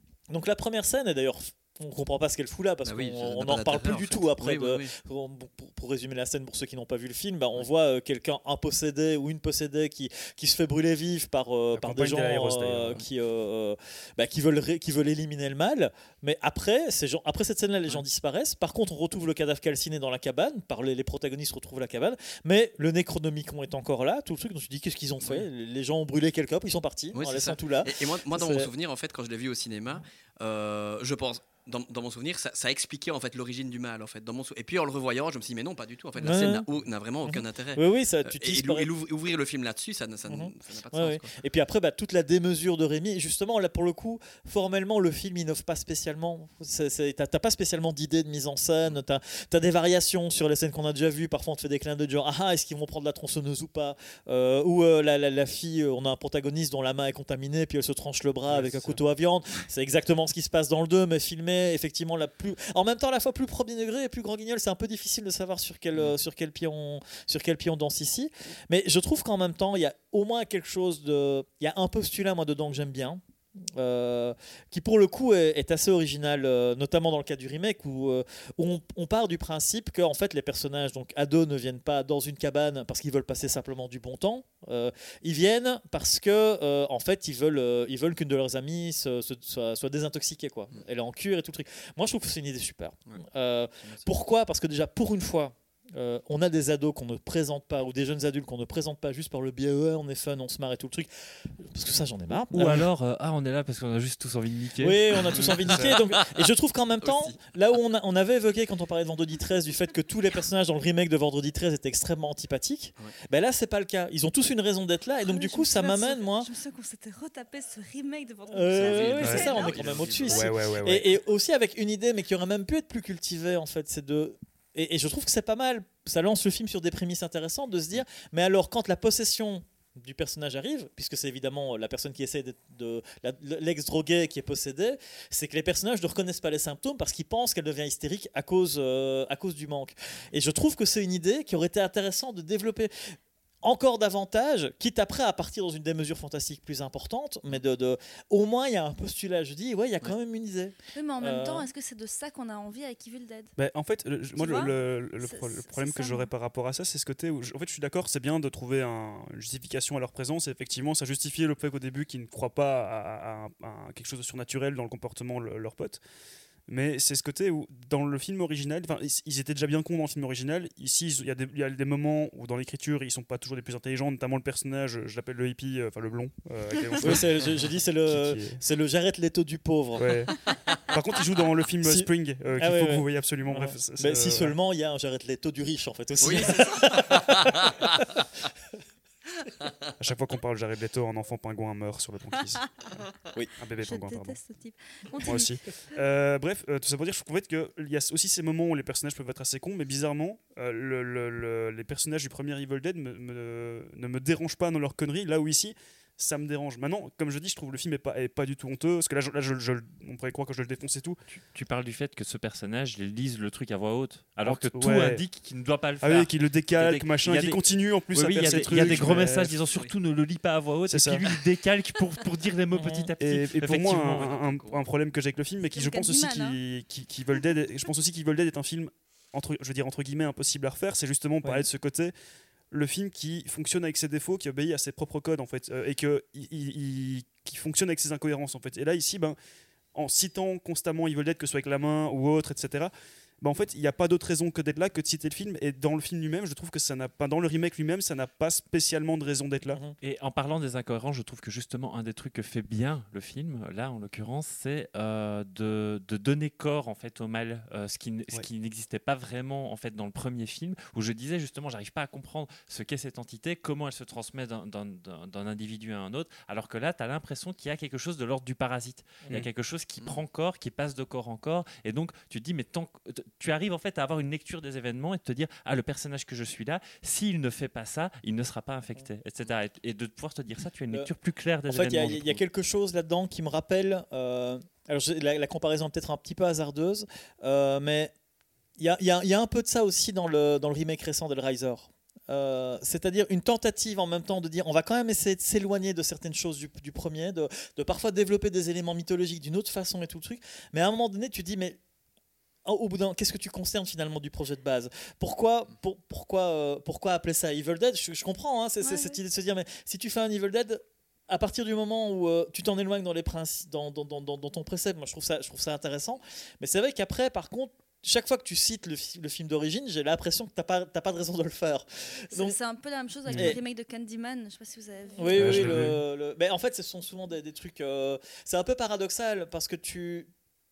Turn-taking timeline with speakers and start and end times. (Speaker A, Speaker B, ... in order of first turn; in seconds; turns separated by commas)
Speaker A: 0.3-28.7, Speaker B: 2.8-4.9, Speaker C: 11.7-13.0, Speaker B: 25.2-25.5, Speaker B: 27.1-41.3, Speaker A: 36.2-36.6, Speaker A: 37.2-38.9, Speaker A: 40.3-102.9, Speaker C: 58.5-59.0, Speaker B: 93.8-94.1, Speaker D: 102.3-105.2, Speaker A: 104.8-116.5, Speaker B: 105.3-106.5, Speaker B: 107.0-107.4, Speaker E: 115.2-119.9, Speaker A: 118.5-151.7, Speaker B: 118.7-120.5, Speaker C: 119.2-119.5, Speaker C: 120.2-121.2, Speaker E: 150.9-153.5, Speaker C: 153.6-166.0, Speaker E: 154.3-156.3, Speaker C: 166.7-178.6, Speaker E: 176.8-177.2, Speaker A: 177.0-180.2, Speaker C: 179.9-184.5, Speaker A: 181.8-187.8, Speaker B: 186.2-188.0, Speaker C: 190.0-192.7, Speaker E: 192.6-192.8, Speaker C: 193.6-194.4, Speaker E: 193.8-195.6, Speaker C: 195.2-211.2, Speaker D: 211.3-224.3, Speaker C: 214.4-215.2, Speaker C: 216.0-219.6, Speaker B: 218.4-219.2, Speaker B: 219.7-219.9, Speaker C: 220.9-221.2, Speaker A: 222.7-223.1, Speaker C: 223.2-232.1, Speaker B: 224.0-224.8, Speaker E: 225.7-226.6, Speaker C: 232.7-239.4, Speaker C: 239.9-249.8, Speaker A: 249.7-249.9, Speaker D: 250.0-282.4, Speaker A: 281.7-288.1, Speaker A: 288.8-301.8, Speaker A: 302.6-322.6, Speaker E: 308.8-309.2, Speaker E: 322.3-325.9, Speaker C: 323.3-323.5, Speaker A: 323.3-323.6, Speaker A: 325.2-330.3, Speaker C: 325.3-326.0